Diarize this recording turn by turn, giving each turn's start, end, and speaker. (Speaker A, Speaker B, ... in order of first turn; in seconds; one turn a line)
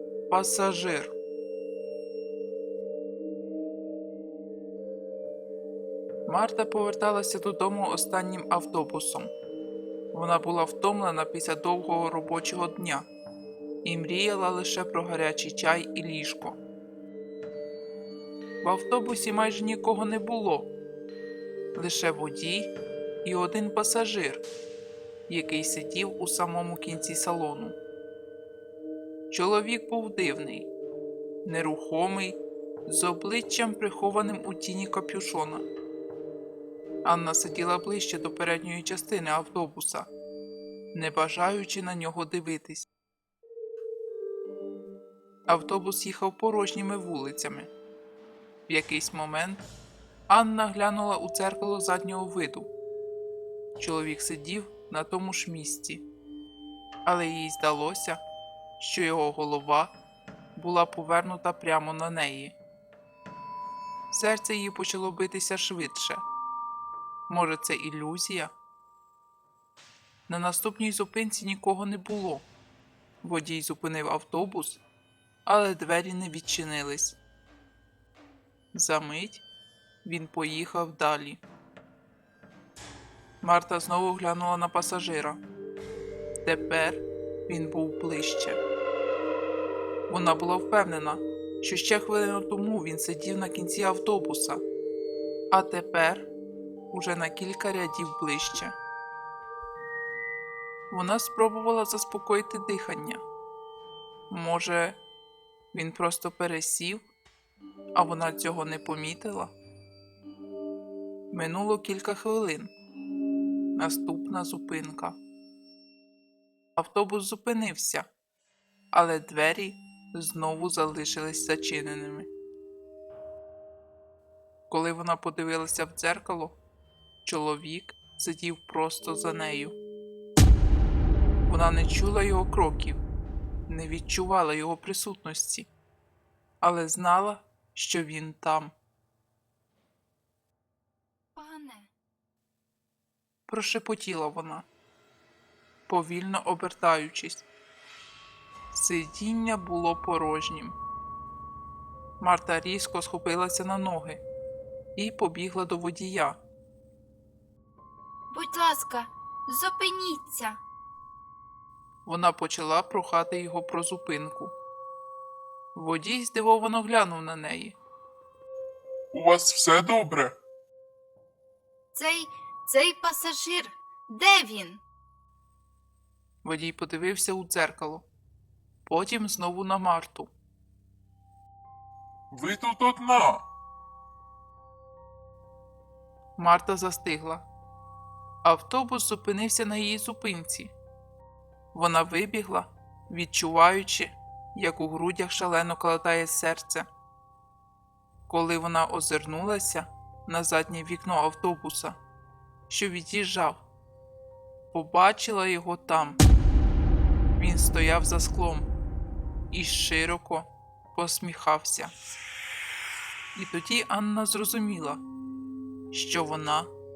Speaker A: 0.3-1.1
Speaker A: 6.3-9.3
Speaker A: 10.1-13.1
Speaker A: 13.8-16.6
Speaker A: 18.6-20.7
Speaker A: 21.8-22.7
Speaker A: 23.2-24.4
Speaker A: 25.3-27.8
Speaker A: 29.3-30.7
Speaker A: 31.4-35.6
Speaker A: 37.0-40.1
Speaker A: 40.9-42.9
Speaker A: 45.5-47.7
Speaker A: 48.7-49.6
Speaker A: 50.3-52.7
Speaker A: 53.8-56.0
Speaker A: 57.0-58.2
Speaker A: 58.8-59.9
Speaker A: 60.5-62.6
Speaker A: 64.1-66.2
Speaker A: 67.3-68.5
Speaker A: 70.3-72.5
Speaker A: 73.2-74.8
Speaker A: 75.5-77.2
Speaker A: 78.7-79.4
Speaker A: 80.0-81.4
Speaker A: 83.4-85.4
Speaker A: 86.4-88.6
Speaker A: 90.1-94.6
Speaker A: 95.5-96.3
Speaker A: 96.9-98.7
Speaker A: 100.9-103.2
Speaker A: 104.3-105.0
Speaker A: 105.7-107.1
Speaker A: 108.0-109.5
Speaker A: 111.3-112.7
Speaker A: 113.8-115.2
Speaker A: 116.8-118.1
Speaker A: 118.9-122.3
Speaker A: 124.7-126.6
Speaker A: 127.2-129.8
Speaker A: 131.4-133.0
Speaker A: 133.7-135.7
Speaker A: 136.6-138.7
Speaker B: 141.3-141.9
Speaker A: 143.5-144.7
Speaker A: 145.9-147.5
Speaker A: 148.7-150.8
Speaker A: 152.2-154.2
Speaker A: 155.0-156.4
Speaker B: 158.3-160.6
Speaker A: 162.1-164.6
Speaker A: 165.7-167.8
Speaker C: 169.1-170.4
Speaker B: 171.9-174.8
Speaker A: 176.4-178.1
Speaker A: 178.8-180.3
Speaker C: 182.3-183.5
Speaker A: 186.4-187.5
Speaker A: 188.4-190.7
Speaker A: 191.7-196.9
Speaker A: 198.3-202.0
Speaker A: 202.7-203.7
Speaker A: 204.7-206.2
Speaker A: 207.4-208.7
Speaker A: 209.5-211.9
Speaker A: 213.3-215.0
Speaker A: 215.9-216.7